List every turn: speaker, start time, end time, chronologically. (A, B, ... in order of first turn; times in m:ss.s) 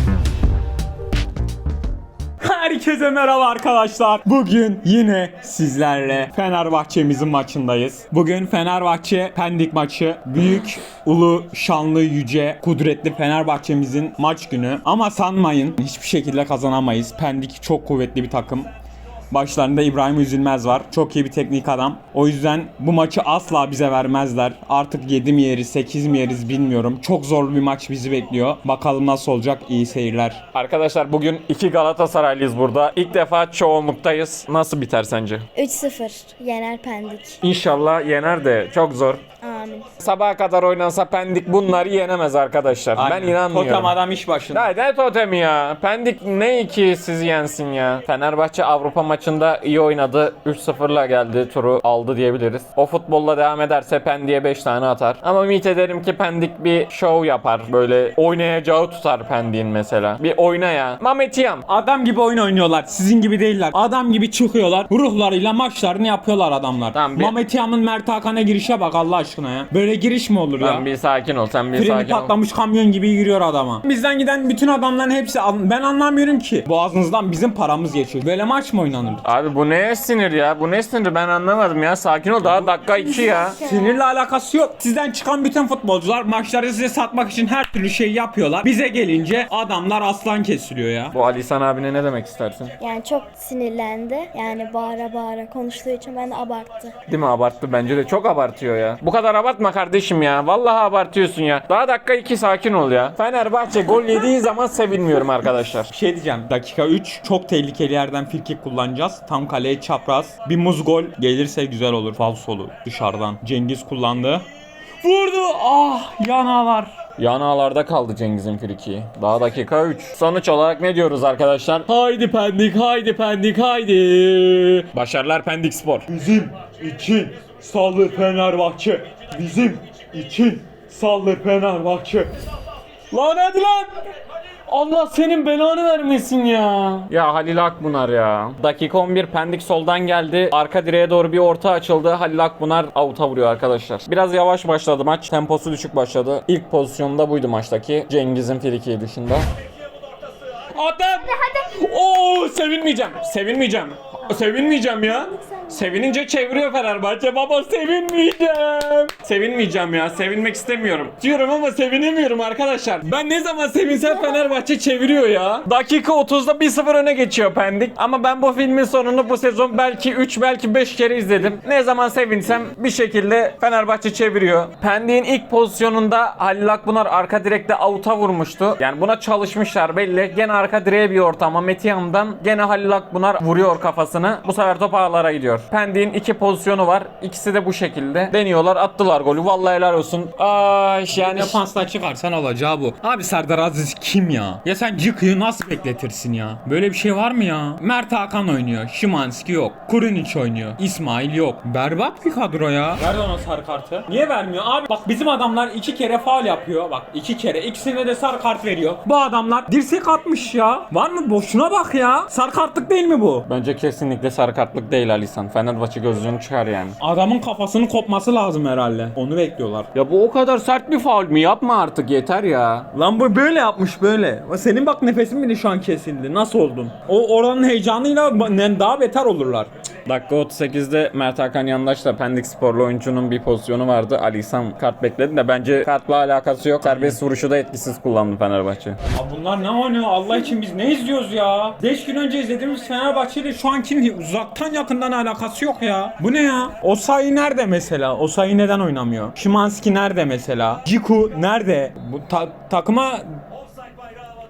0:02.4-0:18.7 A
0:19.3-0:30.4 A
0:30.5-0:35.4 B
0:35.5-0:37.4 C
0:37.4-0:39.2 B
0:39.4-0:39.9 C
0:40.0-0:43.9 B
0:42.9-0:44.7 A
0:44.5-1:01.6 B
1:01.7-1:10.8 A
1:06.9-1:07.3 B
1:10.6-1:12.3 B
1:11.7-1:19.2 A
1:19.2-1:23.6 B
1:22.4-1:31.1 A
1:23.0-1:23.9 C
1:31.1-1:32.8 B
1:32.8-1:36.9 C
1:37.1-1:45.9 B
1:45.9-1:54.4 A
1:55.0-1:56.9 A
1:57.2-2:06.1 B
2:06.1-2:12.3 A
2:13.1-2:14.0 B
2:14.7-2:29.5 B
2:30.7-3:11.6 B
2:35.1-2:35.4 C
3:11.1-3:33.4 A
3:33.4-3:37.0 B
3:37.0-3:39.9 A
3:39.9-3:42.9 B
3:42.9-3:49.7 A
3:50.0-3:59.0 B
3:56.8-3:57.2 A
3:59.1-4:13.4 A